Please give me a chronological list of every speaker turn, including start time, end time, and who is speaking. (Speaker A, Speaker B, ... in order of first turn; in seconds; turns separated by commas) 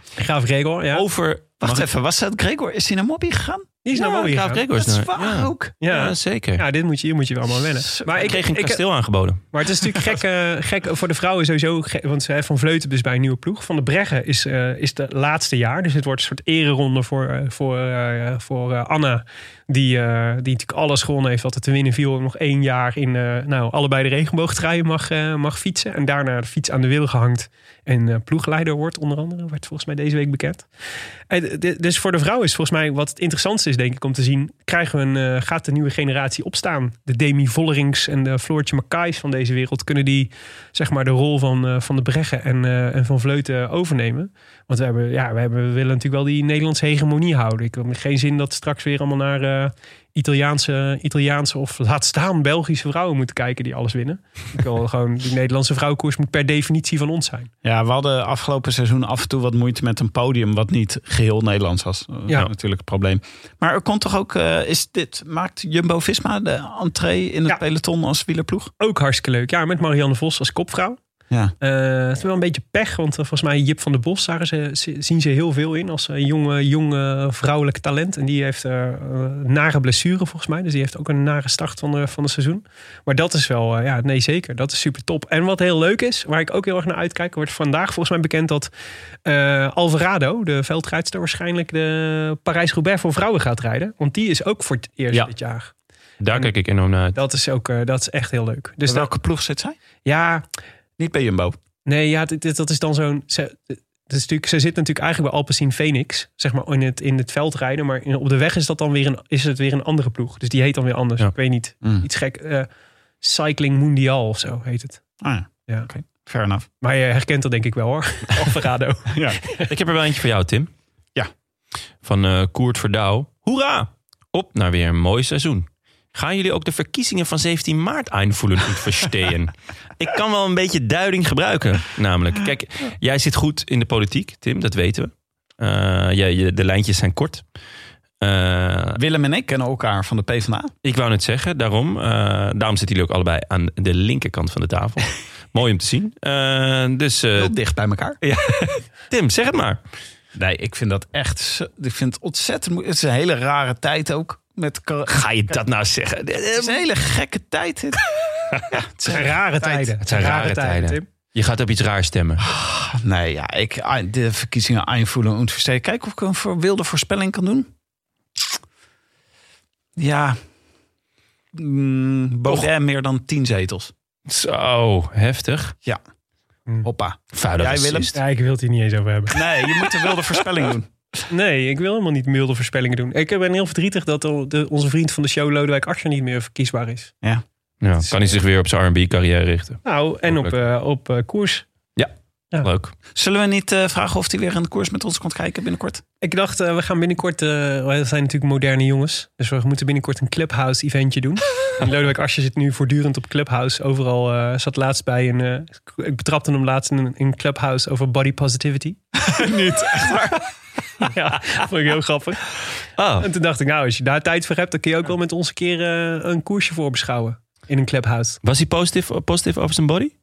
Speaker A: 0.2-1.0, Speaker B: 0.9-1.9, Speaker C: 1.6-3.8, Speaker A: 3.9-4.6, Speaker B: 4.0-6.6, Speaker C: 4.8-5.7, Speaker A: 5.8-8.8, Speaker C: 7.8-8.3, Speaker B: 8.1-9.4, Speaker A: 9.5-30.7, Speaker A: 31.3-57.5, Speaker C: 57.6-68.7, Speaker A: 68.8-71.0, Speaker A: 71.6-88.7, Speaker A: 89.2-95.7, Speaker B: 96.2-97.2, Speaker A: 97.1-99.1, Speaker C: 98.8-99.8, Speaker A: 100.0-100.5, Speaker C: 101.0-101.6, Speaker A: 101.9-112.7, Speaker A: 113.2-115.0, Speaker C: 115.2-116.7, Speaker A: 116.8-119.7, Speaker C: 119.1-119.4, Speaker B: 119.6-120.7, Speaker B: 122.0-137.4, Speaker B: 138.2-139.0, Speaker C: 139.0-140.7, Speaker B: 140.8-147.5, Speaker C: 147.4-148.2, Speaker B: 148.2-149.8, Speaker C: 150.3-155.6, Speaker B: 155.1-156.8, Speaker C: 156.6-158.1, Speaker C: 158.7-159.9, Speaker A: 159.0-161.1, Speaker B: 160.0-162.4, Speaker C: 162.4-167.7, Speaker C: 170.0-170.4, Speaker C: 171.5-173.9, Speaker B: 174.3-175.8, Speaker C: 176.8-178.1, Speaker B: 177.3-178.2, Speaker A: 178.1-180.0, Speaker C: 179.3-181.2, Speaker A: 181.3-187.1, Speaker B: 187.8-190.5, Speaker C: 188.0-188.2, Speaker A: 189.8-191.7, Speaker B: 192.0-192.9, Speaker C: 193.1-196.0, Speaker A: 196.2-209.0, Speaker C: 209.2-210.5, Speaker A: 211.0-212.5, Speaker B: 213.0-213.3, Speaker A: 213.2-218.4, Speaker B: 218.4-220.1